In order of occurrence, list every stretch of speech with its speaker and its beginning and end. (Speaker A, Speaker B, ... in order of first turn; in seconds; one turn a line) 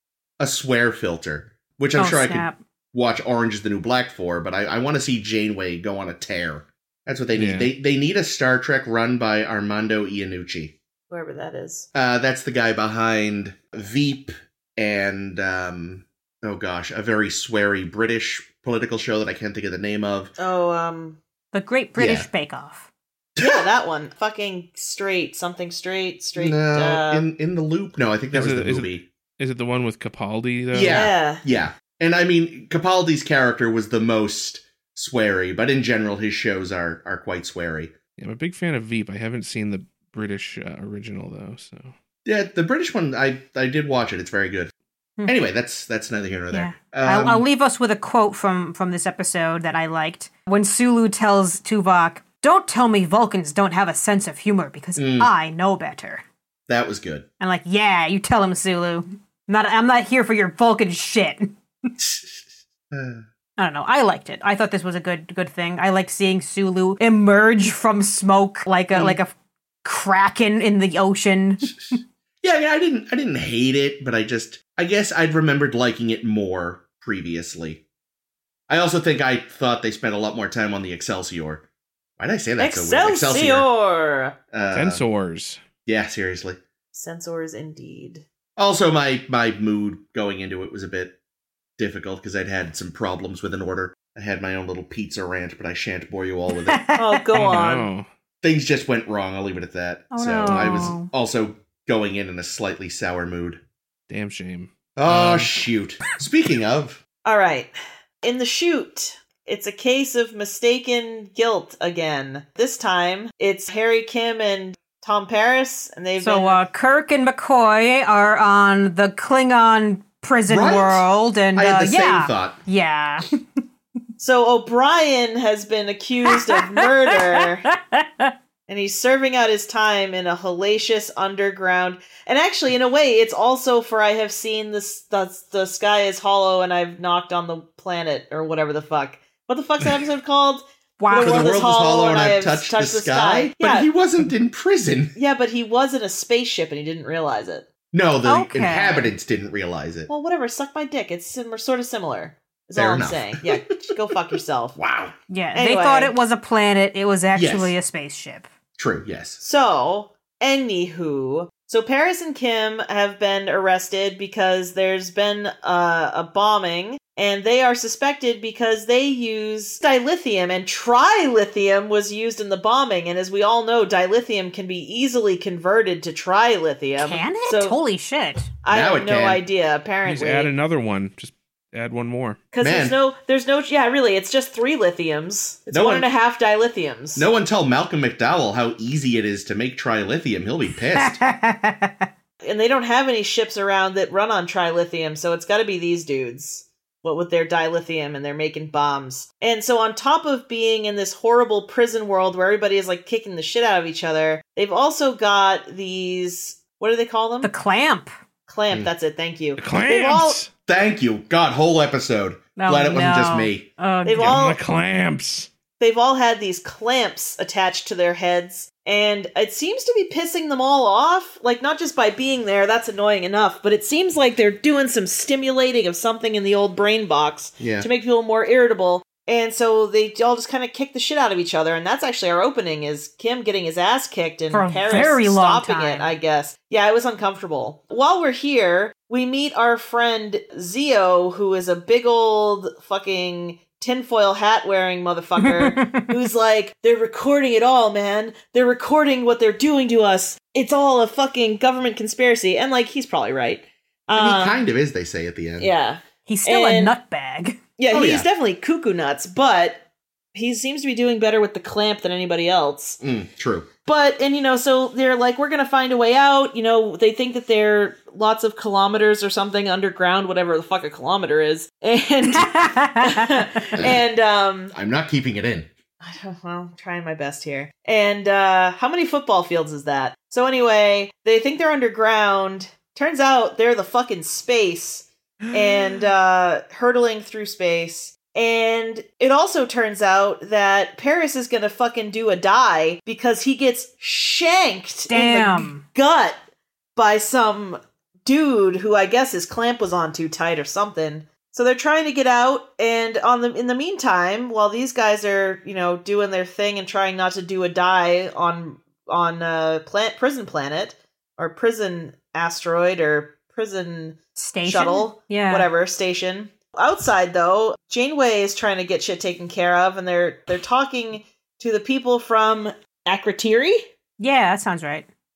Speaker A: 0.4-10.7
Speaker B: 1.9-2.6
Speaker C: 7.3-7.7
Speaker D: 11.1-11.9
Speaker A: 11.9-20.3
Speaker D: 20.4-21.2
Speaker B: 21.5-22.9
Speaker A: 22.0-22.3
Speaker A: 23.4-23.6
Speaker D: 23.4-27.2
Speaker A: 26.4-29.1
Speaker C: 28.3-31.1
Speaker A: 30.7-37.9
Speaker D: 30.9-31.4
Speaker C: 38.2-41.9
Speaker A: 42.2-44.7
Speaker A: 45.2-47.4
Speaker B: 46.5-56.2
Speaker A: 55.0-55.3
Speaker A: 56.7-57.2
Speaker B: 57.4-61.9
Speaker A: 62.0-63.2
Speaker B: 63.6-69.3
Speaker A: 68.9-69.2
Speaker B: 69.8-72.0
Speaker A: 71.9-77.8
Speaker A: 78.7-81.6
Speaker A: 82.2-83.7
Speaker D: 82.6-84.3
Speaker A: 84.5-85.0
Speaker C: 84.7-85.6
Speaker A: 85.8-86.6
Speaker D: 86.9-88.2
Speaker A: 88.6-91.2
Speaker A: 91.8-96.8
Speaker B: 96.7-97.1
Speaker D: 96.9-97.9
Speaker C: 97.3-98.1
Speaker A: 98.4-103.6
Speaker B: 100.1-101.1
Speaker C: 100.4-100.9
Speaker C: 104.1-105.5
Speaker A: 105.0-107.0
Speaker D: 107.2-107.7
Speaker D: 108.2-116.6
Speaker B: 116.2-123.4
Speaker A: 120.5-122.6
Speaker D: 124.2-127.7
Speaker B: 126.3-128.3
Speaker D: 128.7-143.9
Speaker B: 141.0-141.6
Speaker A: 141.2-145.1
Speaker D: 145.1-147.6
Speaker A: 147.9-150.1
Speaker B: 148.2-149.1
Speaker D: 150.1-154.8
Speaker A: 152.8-153.9
Speaker A: 154.8-155.1
Speaker B: 155.3-158.5
Speaker D: 155.5-156.1
Speaker A: 157.3-157.7
Speaker A: 158.8-159.4
Speaker D: 159.4-177.8
Speaker B: 177.0-178.5
Speaker D: 178.6-180.5
Speaker A: 178.7-179.4
Speaker C: 180.0-182.4
Speaker D: 182.5-187.3
Speaker A: 182.6-182.9
Speaker A: 185.7-186.1
Speaker A: 187.2-191.2
Speaker B: 190.9-192.1
Speaker D: 192.4-207.5
Speaker B: 207.4-208.1
Speaker D: 208.5-210.4
Speaker C: 209.6-210.5
Speaker A: 210.7-213.7
Speaker B: 212.6-214.4
Speaker D: 214.0-214.6
Speaker C: 214.1-215.5
Speaker D: 215.8-254.6
Speaker A: 227.6-227.9
Speaker B: 234.5-236.1
Speaker B: 245.4-246.1
Speaker A: 254.2-255.7
Speaker D: 255.6-256.9
Speaker B: 256.2-257.6
Speaker D: 257.8-263.0
Speaker A: 257.9-258.3
Speaker A: 263.0-263.7
Speaker D: 263.9-274.7
Speaker B: 272.3-273.8
Speaker A: 274.7-275.7
Speaker D: 276.0-296.4
Speaker B: 295.1-295.8
Speaker D: 296.9-323.8
Speaker B: 314.4-315.7
Speaker B: 324.2-325.1